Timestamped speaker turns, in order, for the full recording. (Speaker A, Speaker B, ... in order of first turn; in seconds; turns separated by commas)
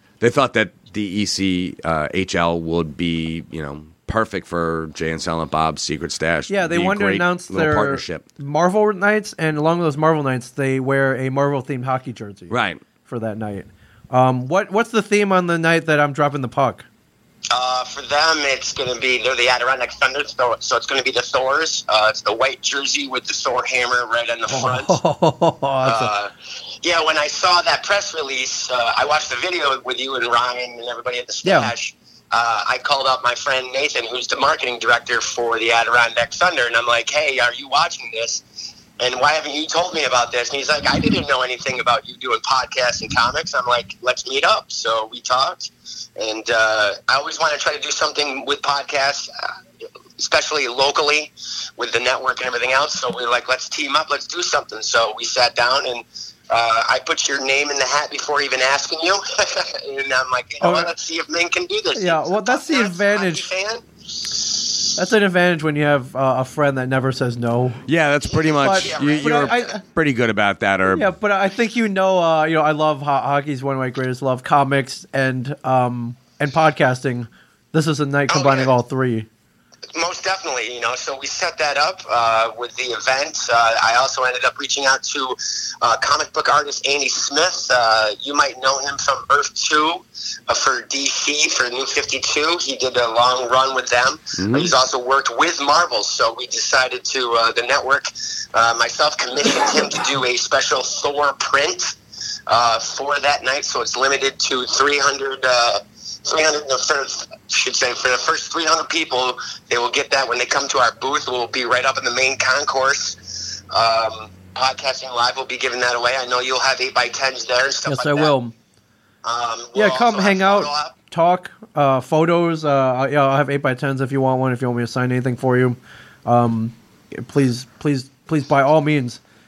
Speaker A: 0.2-8.2, Speaker B: 6.5-16.9, Speaker A: 12.5-12.8, Speaker C: 17.5-25.0, Speaker B: 24.5-26.1, Speaker C: 25.8-26.3, Speaker C: 26.8-38.4, Speaker B: 31.4-31.7, Speaker C: 39.0-49.3, Speaker C: 50.2-64.3, Speaker B: 60.6-60.9, Speaker B: 61.9-63.5, Speaker B: 65.0-67.8, Speaker A: 67.9-71.1, Speaker C: 68.5-69.5, Speaker B: 68.5-69.8, Speaker B: 70.8-79.3, Speaker C: 78.3-78.7, Speaker C: 79.9-102.0, Speaker A: 94.4-94.7, Speaker C: 102.5-118.3, Speaker B: 117.8-118.5, Speaker C: 119.2-120.9, Speaker B: 119.7-129.2